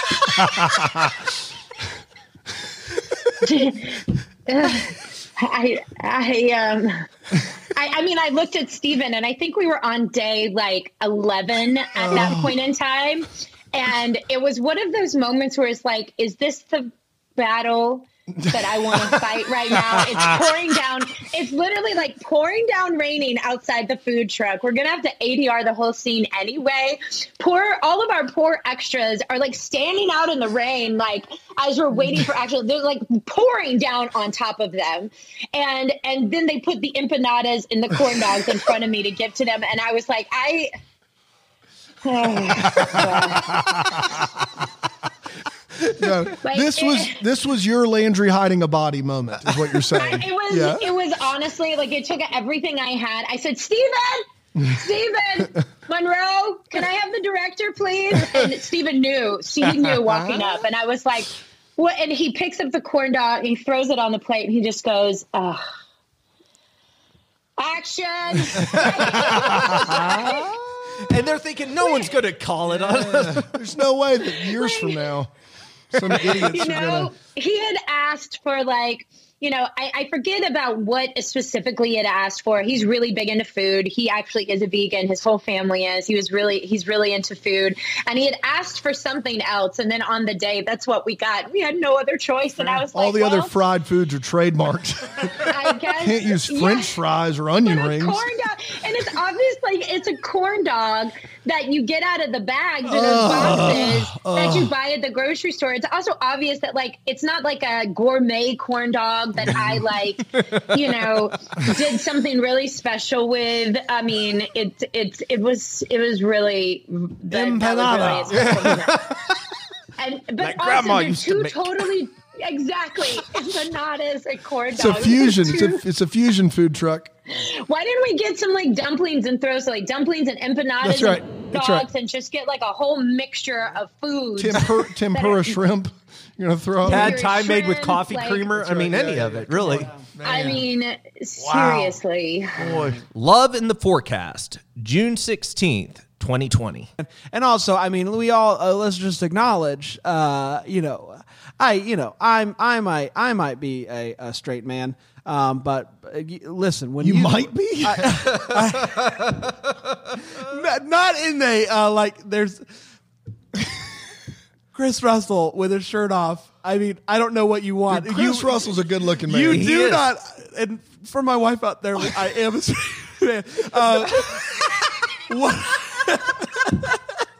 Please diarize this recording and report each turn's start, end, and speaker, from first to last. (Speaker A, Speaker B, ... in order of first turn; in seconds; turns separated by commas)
Speaker A: 3.4-7.0, Speaker A: 7.7-40.7, Speaker B: 12.0-12.5, Speaker B: 18.4-19.2, Speaker B: 19.9-20.5, Speaker A: 42.0-43.7, Speaker B: 42.8-43.2, Speaker B: 43.9-44.2, Speaker B: 45.8-50.8, Speaker A: 46.3-47.2, Speaker A: 49.9-65.6, Speaker B: 59.8-60.5, Speaker A: 67.6-70.5, Speaker C: 68.7-70.2, Speaker B: 69.5-70.4, Speaker C: 71.0-73.5, Speaker B: 73.0-75.3, Speaker A: 74.3-75.0, Speaker B: 75.9-77.1, Speaker A: 76.2-93.5, Speaker B: 92.7-98.2, Speaker A: 95.4-97.0, Speaker A: 97.6-119.1, Speaker B: 102.8-104.7, Speaker B: 117.3-118.8, Speaker C: 117.3-119.2, Speaker A: 120.0-125.8, Speaker C: 120.4-121.9, Speaker B: 124.7-127.1, Speaker A: 127.3-135.6, Speaker B: 130.8-131.8, Speaker B: 134.3-137.3, Speaker A: 136.8-138.6, Speaker C: 136.8-139.9, Speaker B: 138.5-140.6, Speaker D: 139.7-140.0, Speaker A: 140.2-142.7, Speaker C: 141.5-141.8, Speaker C: 142.6-146.9, Speaker D: 147.0-159.5, Speaker B: 157.0-158.5, Speaker D: 160.3-162.6, Speaker D: 164.7-174.6, Speaker B: 167.9-169.7, Speaker C: 169.5-170.0, Speaker D: 175.3-177.0